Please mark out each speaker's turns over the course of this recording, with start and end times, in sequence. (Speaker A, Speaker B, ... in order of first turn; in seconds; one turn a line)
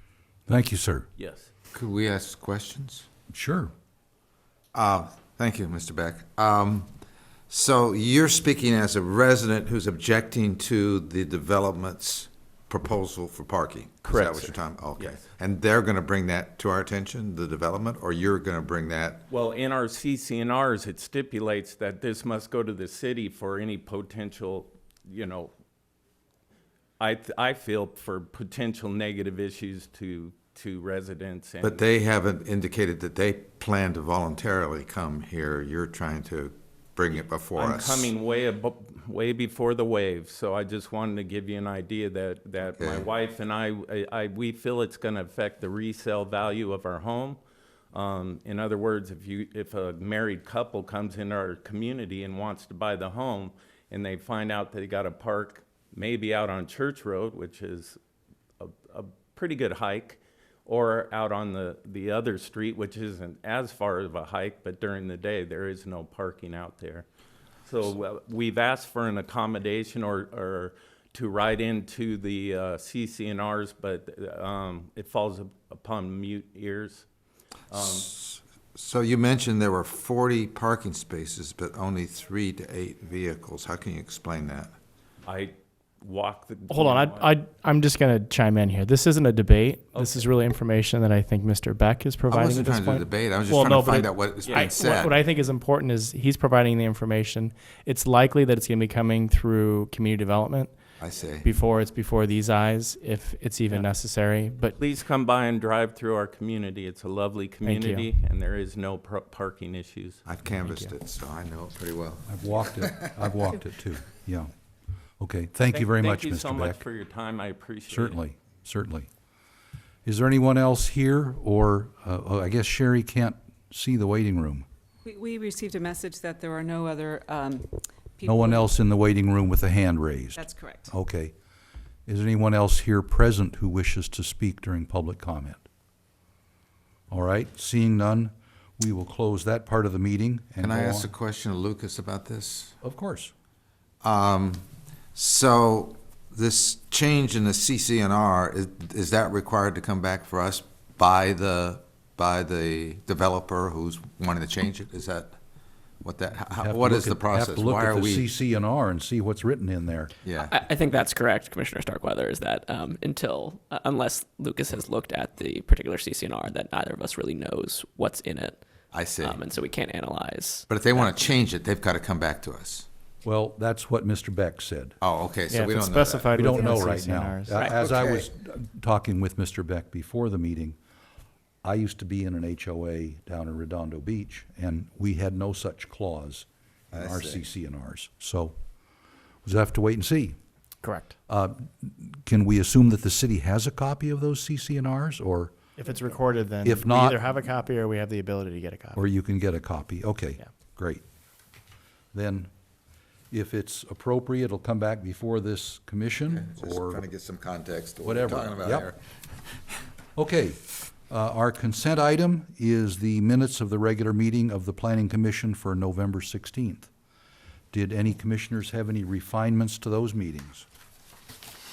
Speaker A: 0.5-1.1
Speaker B: 1.2-1.5
Speaker C: 1.7-3.1
Speaker A: 3.3-3.7
Speaker C: 4.7-6.9
Speaker C: 7.5-19.2
Speaker B: 14.1-15.2
Speaker B: 19.3-25.5
Speaker B: 27.0-31.9
Speaker C: 31.6-38.1
Speaker B: 37.6-47.4
Speaker C: 42.8-43.1
Speaker B: 47.9-58.0
Speaker B: 58.6-67.0
Speaker B: 67.7-77.1
Speaker B: 77.7-78.1
Speaker C: 77.8-84.7
Speaker B: 85.2-87.3
Speaker D: 86.7-100.7
Speaker B: 89.9-90.2
Speaker C: 92.3-95.2
Speaker B: 94.5-94.7
Speaker C: 101.0-101.5
Speaker D: 101.4-104.7
Speaker B: 104.8-110.2
Speaker D: 107.6-108.1
Speaker C: 110.2-112.3
Speaker D: 110.7-110.9
Speaker A: 112.3-114.5
Speaker A: 115.2-116.8
Speaker B: 115.7-118.2
Speaker A: 117.9-119.1
Speaker A: 120.0-124.7
Speaker E: 125.0-128.7
Speaker A: 128.2-131.3
Speaker E: 130.4-130.9
Speaker A: 132.1-135.6
Speaker A: 137.1-141.1
Speaker C: 140.6-142.8
Speaker A: 142.8-143.3
Speaker C: 144.0-155.4
Speaker C: 156.0-158.3
Speaker A: 156.5-160.1
Speaker C: 160.2-160.6
Speaker F: 160.4-171.2
Speaker C: 168.9-169.4
Speaker C: 170.7-172.9
Speaker A: 173.2-175.0
Speaker C: 175.0-176.4
Speaker D: 175.5-177.6
Speaker A: 176.3-180.8
Speaker C: 177.6-178.3
Speaker A: 181.6-188.6
Speaker C: 186.9-187.4
Speaker A: 189.4-190.4
Speaker D: 190.8-191.1
Speaker A: 191.3-195.6
Speaker D: 195.8-199.0
Speaker A: 196.6-197.2
Speaker A: 198.9-201.0
Speaker A: 202.1-202.5
Speaker A: 203.3-207.0
Speaker C: 206.3-209.0
Speaker A: 208.0-208.9
Speaker A: 210.2-216.9
Speaker A: 217.7-220.7